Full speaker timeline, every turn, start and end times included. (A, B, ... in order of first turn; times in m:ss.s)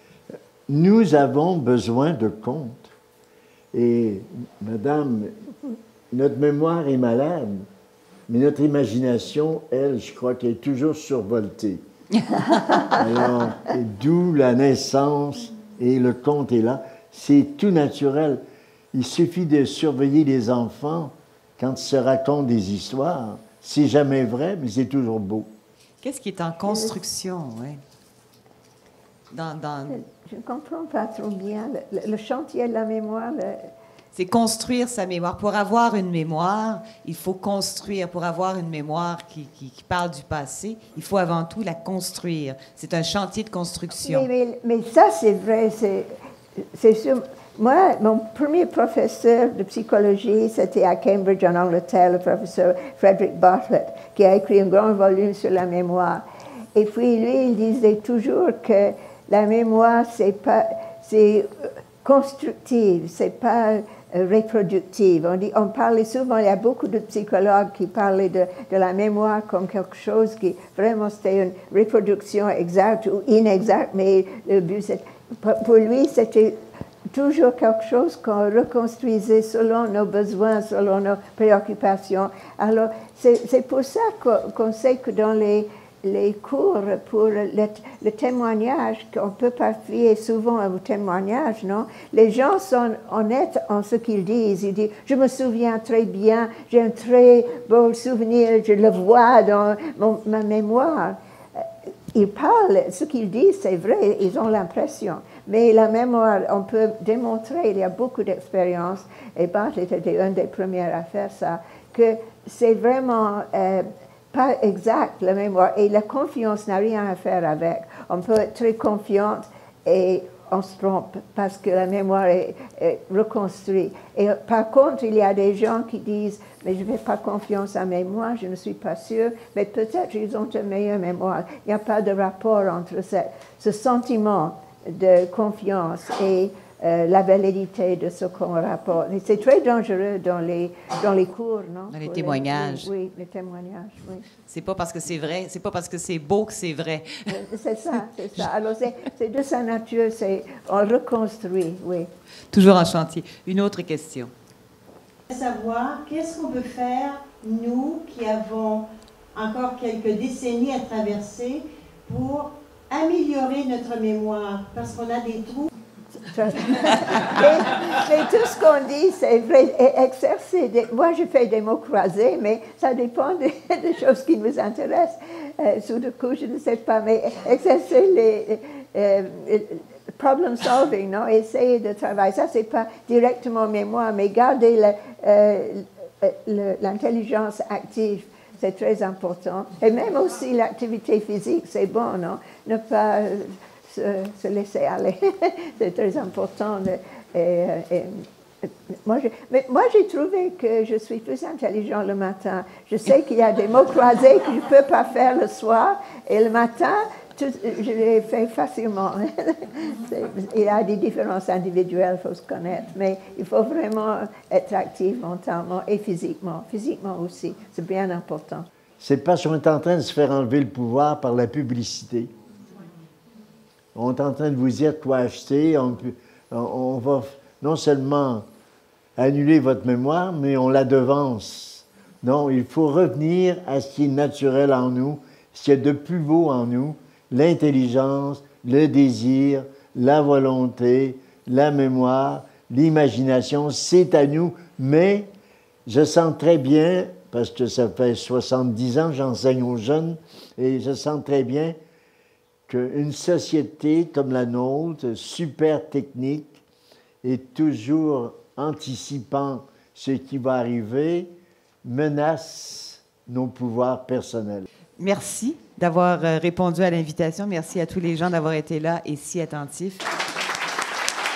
0:00.7-0:02.9 A
0:03.7-0:05.3 A
0:06.1-0:07.7 A
0:08.3-0:11.8 A
0:12.9-0:18.4 A
0:18.9-0:25.5 A
0:26.0-0:27.8 B
0:29.3-0:30.0 B
0:29.9-0:33.7 C
0:34.2-0:44.3 B
0:44.0-0:56.2 C
0:56.8-1:16.6 C
1:17.1-2:24.3 C
2:21.9-2:22.9 B
2:24.5-2:27.3 B
2:27.3-2:32.1 C
2:32.5-2:34.3 B
2:35.3-2:45.7 D
2:46.3-3:38.7 C
3:39.0-3:42.3 A
3:44.0-3:48.5 A
3:49.2-4:05.3 A
4:05.9-4:11.8 A
4:12.7-4:16.6 A
4:17.2-4:24.7 A
4:25.0-4:30.0 B